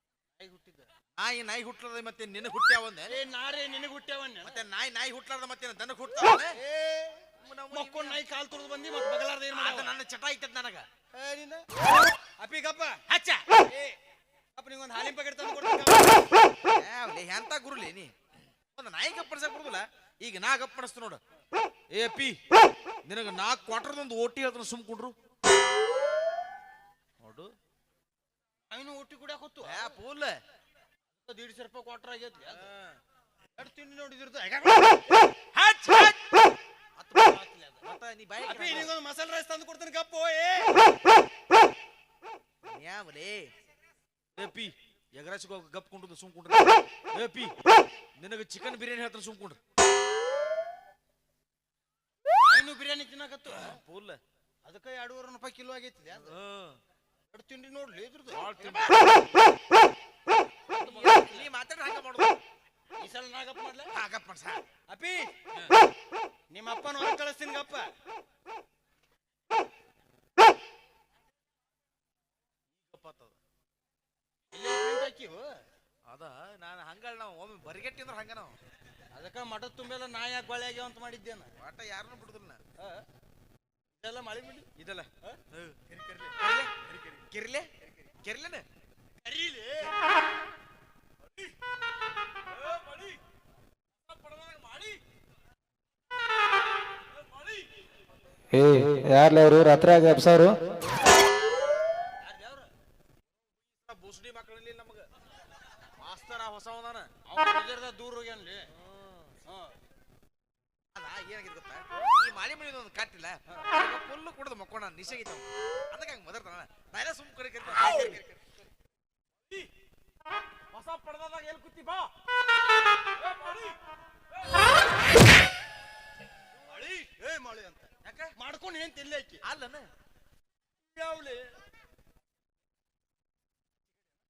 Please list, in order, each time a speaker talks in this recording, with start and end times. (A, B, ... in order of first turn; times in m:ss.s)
0:00.4-0:00.9 A
0:01.2-0:03.2 B
0:03.1-0:04.6 A
0:04.4-0:06.6 B
0:06.5-0:09.9 A
0:07.4-0:08.2 B
0:09.5-0:10.8 B
0:11.1-0:11.6 A
0:12.2-0:13.0 A
0:13.1-0:13.4 B
0:13.7-0:14.0 A
0:14.5-0:16.3 A
0:16.7-0:18.1 B
0:18.7-0:21.2 B
0:21.9-0:22.4 B
0:23.0-0:25.1 B
0:27.2-0:27.5 B
0:28.7-0:30.0 A
0:29.6-0:30.4 B
0:31.2-0:32.7 A
0:32.5-0:33.0 B
0:33.6-0:35.1 A
0:35.5-0:36.2 B
0:37.0-0:38.9 B
0:37.2-0:37.8 A
0:38.4-0:40.8 A
0:42.6-0:43.5 B
0:44.4-0:47.5 B
0:48.2-0:49.6 B
0:52.3-0:53.8 A
0:53.5-0:54.2 B
0:54.6-0:56.4 A
0:56.1-0:56.8 B
0:57.3-0:58.9 A
0:58.3-0:59.2 B
1:00.7-1:01.5 A
1:00.7-1:02.4 B
1:03.0-1:03.9 A
1:03.9-1:04.6 B
1:04.9-1:05.3 A
1:06.5-1:07.9 A
1:12.8-1:13.4 B
1:14.5-1:15.6 A
1:16.1-1:18.6 B
1:19.1-1:21.5 A
1:21.6-1:22.6 B
1:22.8-1:23.0 A
1:24.0-1:24.7 A
1:24.8-1:25.8 B
1:25.2-1:27.2 A
1:26.4-1:28.6 B
1:29.2-1:30.0 A
1:32.5-1:33.2 B
1:34.0-1:35.0 B
1:38.5-1:40.8 C
1:42.2-1:42.7 A
1:43.7-1:45.0 B
1:46.0-1:47.1 B
1:47.2-1:48.7 A
1:48.8-1:49.3 B
1:49.4-1:49.7 A
1:50.9-1:58.4 B
2:00.7-2:02.1 B
2:03.2-2:03.7 B
2:06.6-2:09.4 A
2:08.0-2:08.3 B
2:09.4-2:09.9 B
2:10.9-2:11.6 A